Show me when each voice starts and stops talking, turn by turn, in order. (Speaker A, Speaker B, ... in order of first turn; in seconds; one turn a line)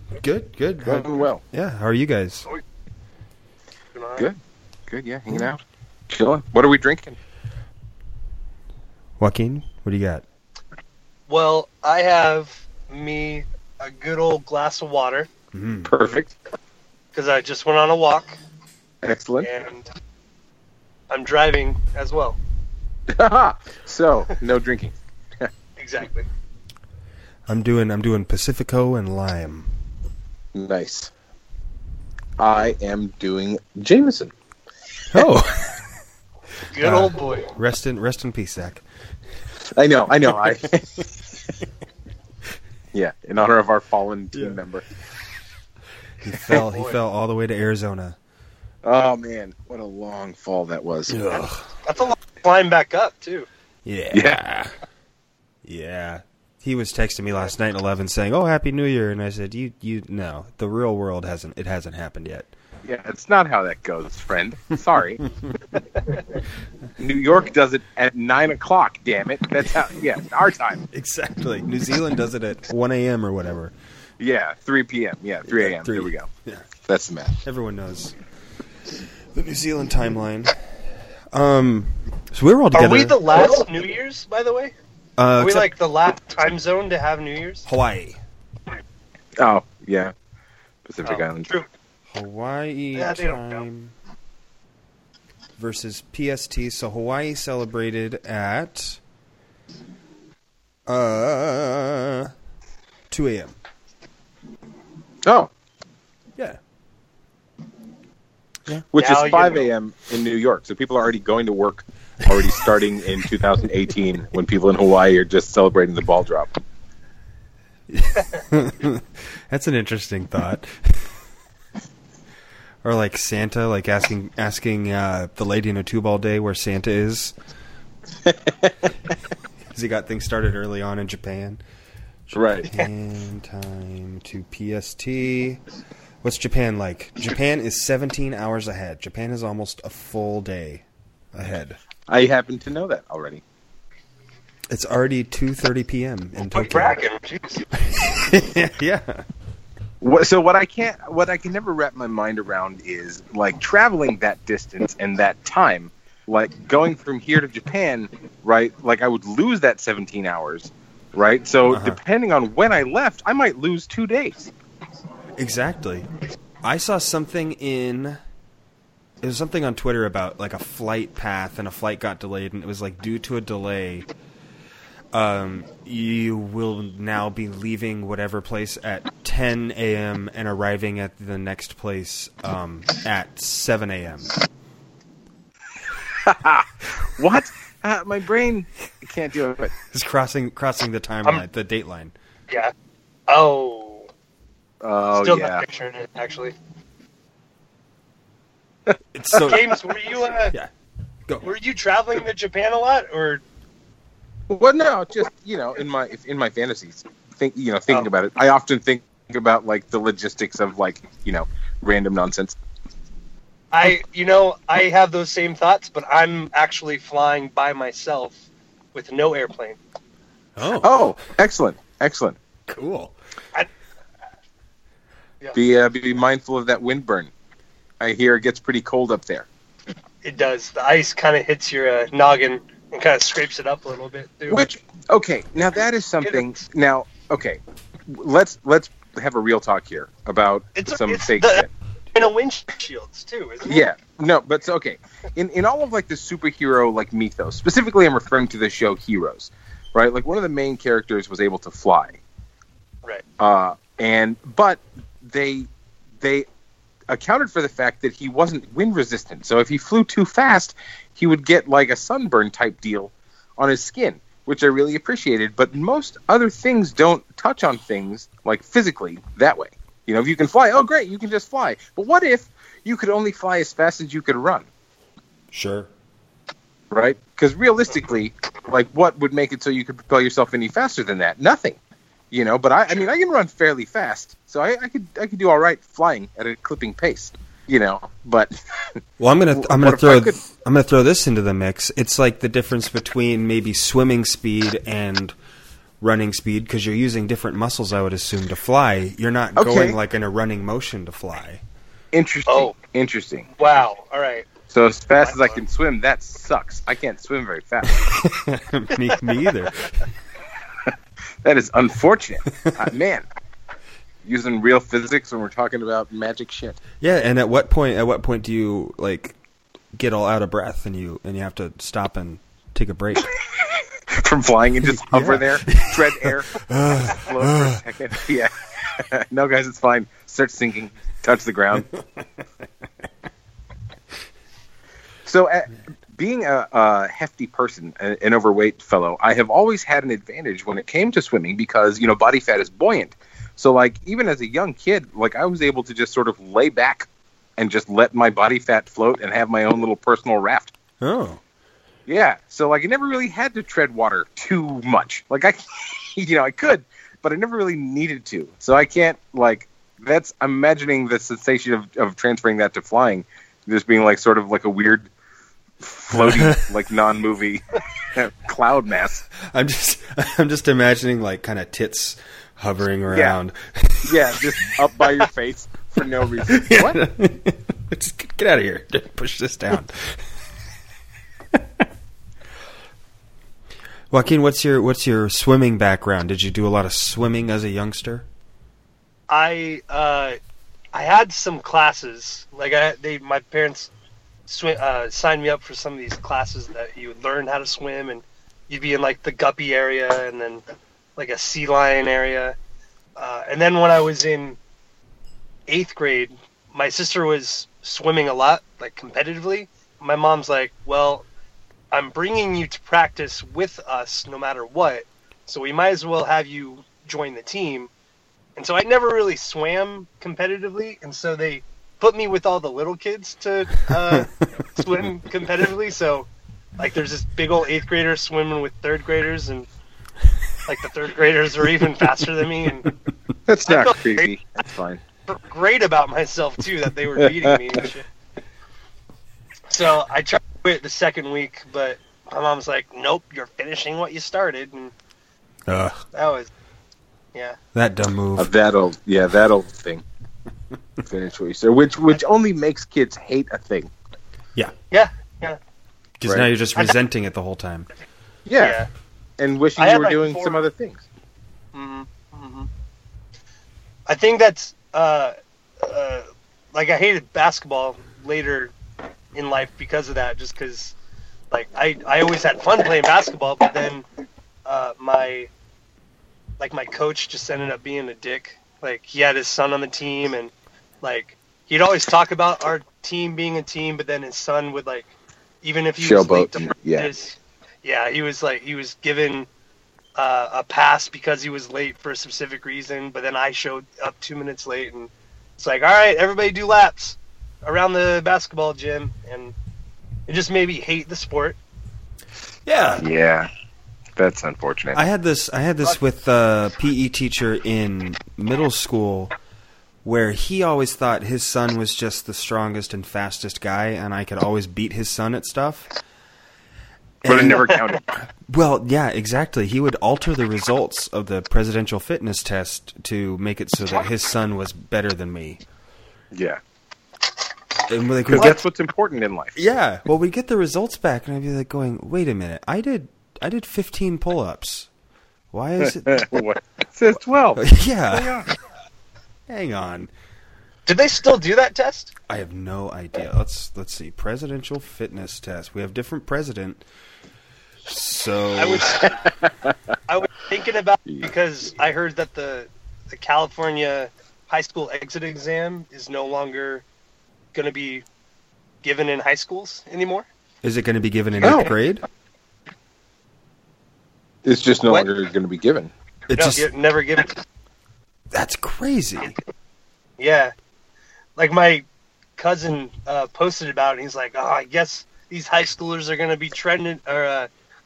Speaker A: 0.2-2.5
Speaker B: 0.8-1.4
Speaker C: 3.9-4.3
Speaker B: 4.9-7.2
Speaker A: 9.2-10.2
Speaker C: 11.3-15.3
Speaker A: 15.5-15.9
Speaker B: 15.8-16.3
Speaker C: 17.1-18.4
Speaker B: 19.0-19.5
Speaker C: 19.4-19.9
Speaker C: 21.1-22.4
Speaker B: 23.1-25.5
Speaker C: 25.8-26.3
Speaker A: 27.5-29.7
Speaker B: 30.5-31.1
Speaker B: 32.4-34.3
Speaker A: 35.1-35.8
Speaker C: 36.7-37.5
Speaker A: 36.8-38.8
Speaker B: 39.8-41.1
Speaker B: 42.9-44.8
Speaker A: 44.4-44.6
Speaker A: 46.2-48.2
Speaker C: 46.6-46.9
Speaker B: 48.8-51.2
Speaker A: 51.1-51.7
Speaker C: 51.8-53.5
Speaker A: 53.9-54.7
Speaker B: 54.1-54.4
Speaker A: 55.6-62.5
Speaker B: 62.8-65.2
Speaker B: 67.0-70.8
Speaker A: 70.9-73.7
Speaker B: 74.2-76.3
Speaker A: 75.5-76.7
Speaker B: 76.9-77.4
Speaker A: 77.4-78.2
Speaker A: 79.3-80.5
Speaker A: 81.3-83.2
Speaker C: 82.7-84.7
Speaker A: 85.2-85.7
Speaker C: 85.4-87.7
Speaker A: 87.7-88.2
Speaker B: 89.4-90.1
Speaker B: 90.8-91.5
Speaker C: 91.0-91.7
Speaker A: 92.1-93.9
Speaker C: 93.0-93.6
Speaker A: 95.6-99.0
Speaker A: 100.9-102.3
Speaker A: 103.1-103.6
Speaker B: 105.2-105.5
Speaker B: 108.9-116.5
Speaker C: 109.0-109.7
Speaker A: 117.9-121.2
Speaker A: 122.8-127.3
Speaker B: 128.2-128.7
Speaker A: 129.7-131.6
Speaker A: 132.3-135.6
Speaker B: 132.3-132.7
Speaker A: 136.2-141.8
Speaker B: 142.1-143.4
Speaker A: 144.7-146.9
Speaker C: 146.5-147.7
Speaker A: 147.7-149.2
Speaker B: 150.0-164.5
Speaker A: 161.7-162.0
Speaker A: 165.4-166.1
Speaker A: 166.6-168.2
Speaker A: 169.2-174.1
Speaker A: 175.1-184.3
Speaker B: 186.2-189.8
Speaker A: 189.9-192.1
Speaker C: 193.3-194.1
Speaker B: 194.8-195.6
Speaker C: 195.1-196.6
Speaker A: 199.1-199.7
Speaker C: 199.4-200.6
Speaker C: 201.4-203.4
Speaker B: 204.5-212.6
Speaker C: 213.7-218.4
Speaker C: 218.9-219.8
Speaker A: 220.6-221.1
Speaker B: 220.8-222.4
Speaker A: 222.7-223.1
Speaker B: 225.5-227.3
Speaker B: 228.0-229.5
Speaker C: 230.2-234.7
Speaker B: 234.5-241.7
Speaker C: 236.2-236.7
Speaker C: 240.8-243.9
Speaker B: 243.7-252.2
Speaker B: 253.4-255.7
Speaker B: 256.2-256.5
Speaker B: 257.1-274.7
Speaker A: 275.5-275.9
Speaker B: 276.9-281.8
Speaker B: 282.3-288.5
Speaker A: 289.2-295.3
Speaker B: 289.5-290.4
Speaker A: 296.0-301.6
Speaker B: 299.6-300.0
Speaker B: 302.1-303.5
Speaker C: 302.5-302.7
Speaker C: 303.6-304.5
Speaker B: 304.7-308.1
Speaker C: 305.2-305.6
Speaker A: 308.0-309.9
Speaker B: 311.4-313.2
Speaker B: 314.2-316.8
Speaker A: 317.0-319.4
Speaker A: 319.9-323.3
Speaker B: 324.1-331.9
Speaker A: 324.9-327.8
Speaker B: 335.3-347.1
Speaker B: 347.6-350.7
Speaker A: 351.0-351.4
Speaker B: 352.1-365.1
Speaker B: 365.8-369.2
Speaker A: 366.1-366.7
Speaker A: 369.4-374.4
Speaker B: 373.1-373.4
Speaker B: 374.1-377.0
Speaker A: 376.5-380.3
Speaker A: 384.1-388.3
Speaker C: 389.3-390.4
Speaker C: 390.9-393.9
Speaker C: 394.5-400.6
Speaker C: 401.2-402.6
Speaker C: 403.2-404.6
Speaker C: 405.7-411.3
Speaker C: 411.9-417.9
Speaker C: 418.6-429.7
Speaker C: 430.7-432.9
Speaker B: 433.5-435.0
Speaker C: 433.6-434.3
Speaker C: 435.3-438.1
Speaker C: 439.7-444.9
Speaker A: 445.7-446.0
Speaker C: 446.1-446.5
Speaker A: 447.7-448.5
Speaker B: 448.4-450.0
Speaker B: 451.1-453.9
Speaker C: 454.9-455.6
Speaker A: 456.2-457.9
Speaker B: 458.5-458.8
Speaker C: 458.6-458.9
Speaker B: 459.4-461.0
Speaker C: 459.8-460.7
Speaker C: 461.7-462.7
Speaker C: 464.1-468.7
Speaker C: 469.3-471.0
Speaker C: 471.5-474.1
Speaker C: 474.7-475.5
Speaker C: 476.6-489.5
Speaker B: 486.0-487.1
Speaker C: 490.2-499.5
Speaker C: 500.3-501.6
Speaker A: 502.7-503.0
Speaker B: 503.0-503.5
Speaker B: 504.2-505.0
Speaker A: 504.9-509.3
Speaker A: 510.0-515.9
Speaker A: 517.2-517.8
Speaker B: 517.3-518.1
Speaker A: 518.5-525.6
Speaker B: 526.3-526.6
Speaker A: 527.9-528.6
Speaker B: 528.3-529.6
Speaker A: 529.6-534.9
Speaker A: 535.5-536.4
Speaker B: 535.8-538.5
Speaker A: 537.6-538.4
Speaker A: 539.5-540.1
Speaker C: 540.9-542.1
Speaker A: 542.3-546.8
Speaker A: 547.9-549.1
Speaker C: 548.6-549.2
Speaker B: 549.5-549.7
Speaker C: 550.1-556.9
Speaker C: 557.5-558.0
Speaker C: 558.8-560.3
Speaker A: 560.6-562.0
Speaker B: 561.4-561.7
Speaker B: 564.5-565.9
Speaker A: 566.3-566.7
Speaker C: 566.3-567.4
Speaker A: 568.3-569.3
Speaker C: 570.2-570.5
Speaker C: 571.4-571.9
Speaker C: 572.4-577.5